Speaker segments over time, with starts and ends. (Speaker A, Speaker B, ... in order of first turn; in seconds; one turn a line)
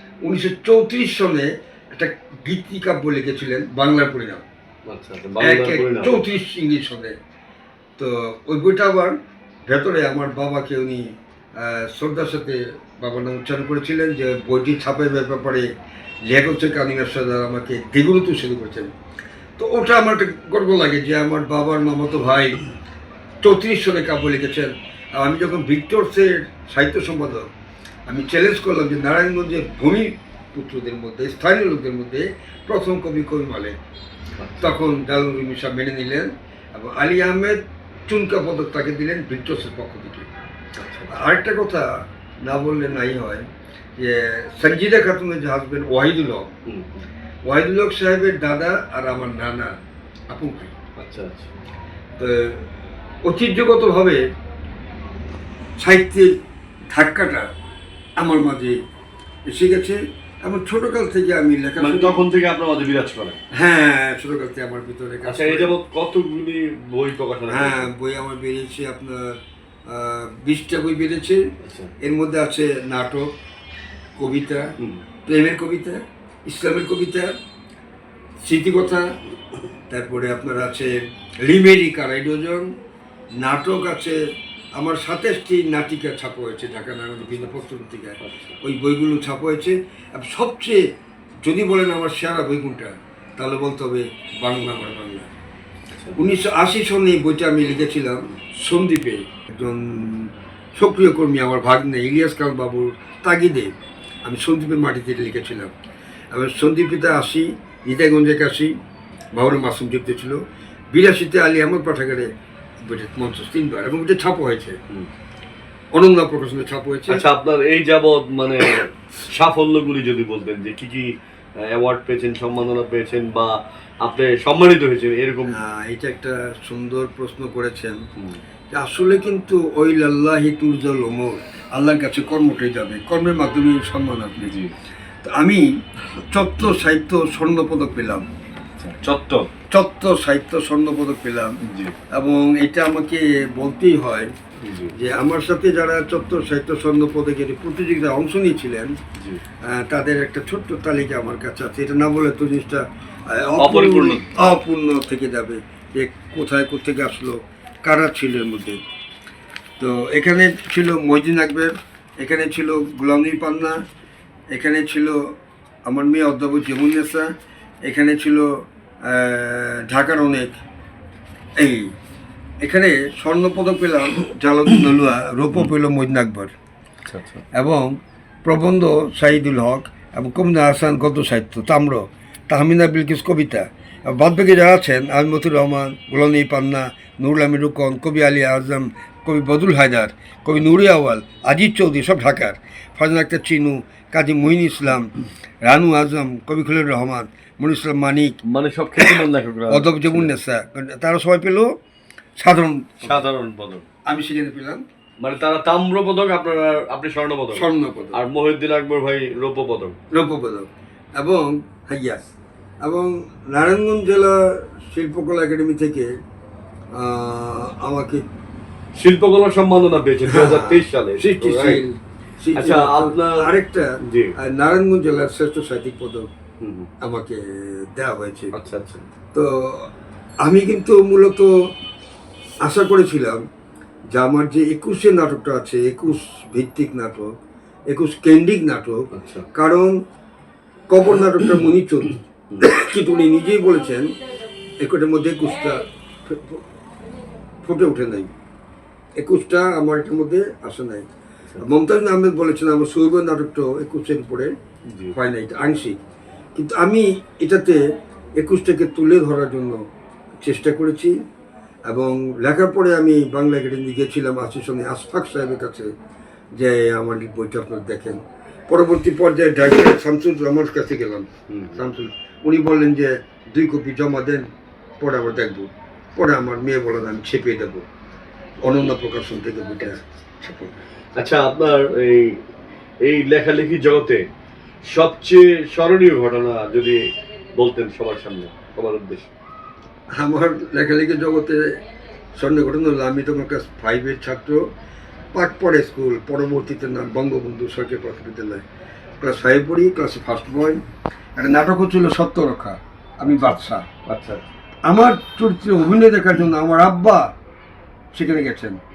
Speaker A: 0.2-4.4
Speaker B: 4.9-6.2
Speaker A: 5.4-7.1
Speaker A: 8.0-9.1
Speaker A: 9.7-11.0
Speaker A: 11.6-15.7
Speaker A: 16.2-18.9
Speaker A: 19.6-22.6
Speaker A: 23.4-27.5
Speaker A: 28.1-33.8
Speaker B: 34.4-34.8
Speaker A: 34.6-40.3
Speaker B: 40.8-41.2
Speaker A: 41.1-43.4
Speaker A: 44.0-46.5
Speaker B: 46.7-47.0
Speaker A: 47.5-49.8
Speaker A: 50.3-50.7
Speaker B: 51.0-51.5
Speaker A: 52.2-52.6
Speaker A: 53.2-54.2
Speaker A: 55.8-56.3
Speaker A: 56.9-57.5
Speaker A: 58.2-58.8
Speaker A: 59.5-62.2
Speaker B: 61.8-63.4
Speaker A: 63.5-65.7
Speaker B: 65.2-67.9
Speaker A: 67.5-71.5
Speaker B: 71.6-71.9
Speaker A: 72.0-73.3
Speaker A: 74.2-74.7
Speaker A: 75.2-77.3
Speaker A: 78.4-79.1
Speaker A: 79.9-82.7
Speaker A: 83.4-84.2
Speaker A: 84.7-90.8
Speaker B: 87.2-87.6
Speaker B: 88.2-88.5
Speaker A: 91.4-95.3
Speaker A: 96.1-103.7
Speaker A: 104.2-105.7
Speaker A: 106.3-108.7
Speaker A: 109.3-110.4
Speaker A: 110.9-112.3
Speaker A: 112.8-114.8
Speaker A: 115.9-117.2
Speaker B: 117.1-121.1
Speaker B: 121.7-125.6
Speaker A: 125.5-128.0
Speaker A: 128.7-134.5
Speaker B: 134.4-134.7
Speaker A: 135.2-135.6
Speaker A: 136.3-138.2
Speaker B: 138.8-139.5
Speaker A: 139.7-141.5
Speaker B: 141.6-142.0
Speaker A: 142.1-144.3
Speaker B: 144.6-144.9
Speaker A: 144.9-148.9
Speaker A: 149.6-158.8
Speaker B: 153.6-154.2
Speaker A: 159.8-163.8
Speaker A: 164.5-165.3
Speaker A: 165.8-167.3
Speaker A: 167.8-170.6
Speaker A: 171.6-171.9
Speaker A: 172.6-176.5
Speaker B: 177.1-177.4
Speaker A: 177.5-195.1
Speaker A: 195.6-198.4
Speaker B: 198.4-200.3
Speaker A: 199.7-201.7
Speaker A: 202.4-203.2
Speaker B: 203.0-203.8
Speaker A: 204.1-204.8
Speaker B: 205.2-210.0
Speaker A: 207.5-208.2
Speaker A: 210.1-212.2
Speaker A: 212.8-216.1
Speaker A: 216.9-218.2
Speaker B: 218.9-221.8
Speaker A: 220.2-226.3
Speaker B: 222.5-223.5
Speaker B: 224.0-224.3
Speaker B: 226.6-226.9
Speaker A: 227.0-228.5
Speaker B: 228.6-229.1
Speaker A: 229.3-229.9
Speaker A: 230.4-231.5
Speaker A: 232.6-233.4
Speaker A: 234.1-237.3
Speaker A: 237.9-239.9
Speaker B: 239.1-239.4
Speaker A: 240.9-244.1
Speaker A: 244.8-246.6
Speaker A: 247.6-248.3
Speaker A: 249.2-251.1
Speaker A: 251.6-254.5
Speaker B: 254.9-255.2
Speaker A: 255.1-256.0
Speaker A: 256.6-257.8
Speaker A: 258.4-259.8
Speaker A: 260.4-261.1
Speaker A: 261.9-265.9
Speaker A: 266.6-274.4
Speaker B: 271.5-271.8
Speaker A: 275.0-277.8
Speaker A: 278.6-280.8
Speaker B: 281.2-282.4
Speaker B: 283.0-284.2
Speaker B: 284.9-287.0
Speaker B: 287.6-289.3
Speaker A: 290.1-291.7
Speaker A: 292.4-294.6
Speaker A: 295.3-298.6
Speaker A: 299.2-300.8
Speaker A: 301.4-303.8
Speaker B: 303.2-304.4
Speaker A: 304.9-307.3
Speaker A: 308.1-308.8